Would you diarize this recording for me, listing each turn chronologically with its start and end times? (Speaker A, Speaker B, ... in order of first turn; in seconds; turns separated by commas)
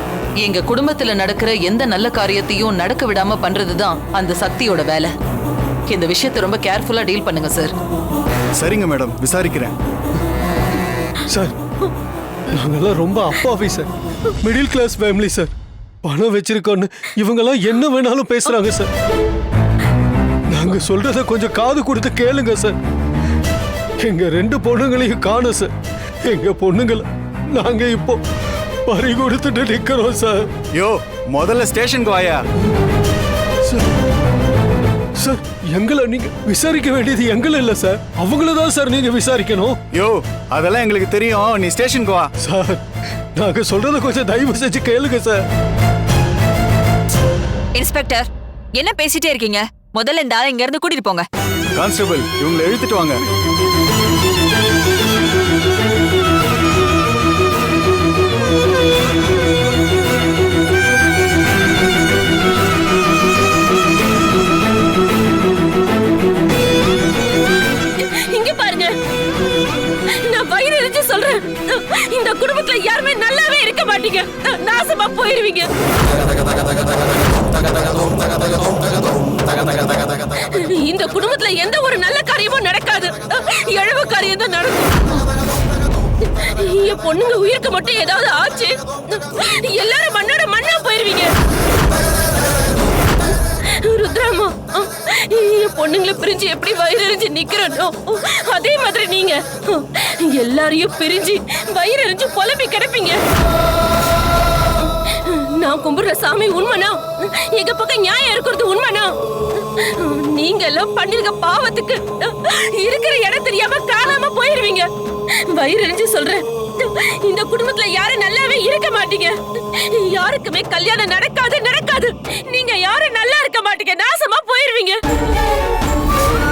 Speaker A: 0.4-5.1, Speaker A: 5.9-7.7, Speaker B: 8.6-9.7, Speaker C: 11.2-11.6, Speaker C: 12.5-13.9, Speaker C: 14.4-15.5, Speaker C: 16.0-18.9, Speaker C: 20.5-22.8, Speaker C: 24.0-25.7, Speaker C: 26.3-28.2, Speaker C: 28.9-30.5, Speaker B: 30.7-32.5, Speaker C: 35.2-39.8, Speaker B: 39.9-42.3, Speaker C: 42.4-42.8, Speaker C: 43.4-45.4, Speaker D: 47.8-51.3, Speaker B: 51.8-53.2, Speaker E: 68.0-69.0, Speaker E: 70.1-75.7, Speaker E: 77.8-85.2, Speaker E: 86.2-91.3, Speaker E: 93.5-103.2, Speaker E: 104.9-114.9, Speaker E: 115.4-125.0